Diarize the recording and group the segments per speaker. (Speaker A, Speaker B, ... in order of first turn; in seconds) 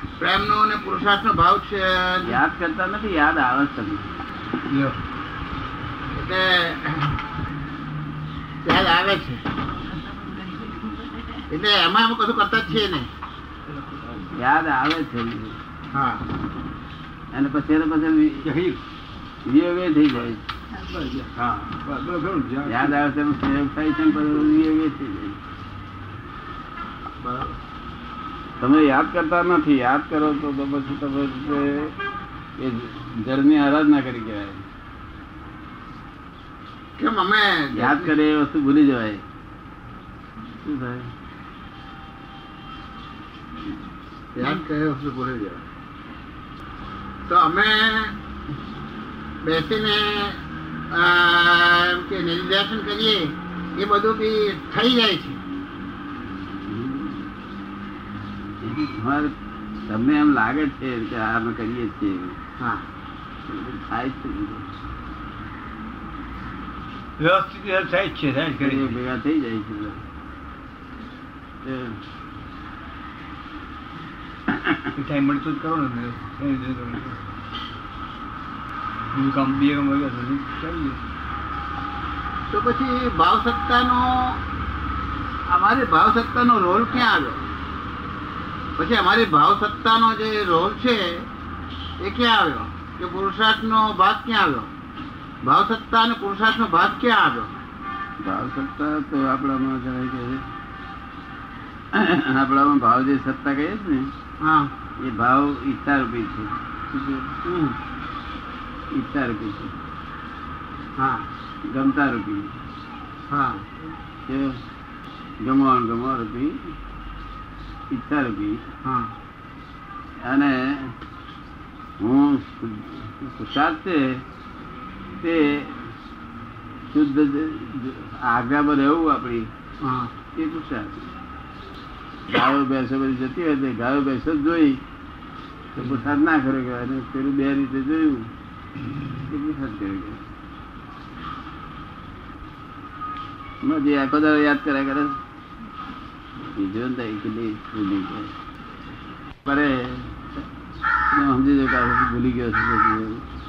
Speaker A: 0.2-2.4, 6.1-7.2, 8.6-9.4, 11.5-13.1, 15.9-16.2, 27.2-27.5, 37.0-38.1, 44.4-45.6, 47.3-48.1, 49.4-50.4, 50.9-55.4, 62.6-62.8, 82.5-84.4, 85.5-87.4, 88.8-91.2, 92.0-94.7, 95.4-97.5, 104.4-104.7, 107.5-107.8, 111.0-111.2, 113.3-113.6, 118.8-119.1, 129.8-130.1
Speaker B: 2.2-4.1, 14.4-15.6, 17.3-18.5, 19.4-20.4, 22.6-25.4, 28.6-31.9, 32.6-34.6, 37.7-39.2, 40.5-41.1, 56.5-57.3, 58.6-59.3, 59.9-62.4, 63.5-64.6, 68.6-70.0, 71.6-72.0, 74.5-74.8, 98.2-100.4, 101.9-104.1, 105.0-107.3, 108.9-109.7, 111.7-112.5, 114.2-114.6, 115.4-116.5, 117.9-118.6, 120.2-120.9, 122.0-124.2, 125.2-125.8, 126.9-129.5, 130.3-130.9, 132.3-134.8, 135.8-138.3, 139.3-140.2, 143.6-145.2, 146.6-148.3, 149.4-150.4, 151.1-153.2
Speaker C: 4.7-5.0, 13.8-14.2, 18.4-18.8, 20.8-23.0, 67.2-68.9, 74.9-77.2, 79.1-81.0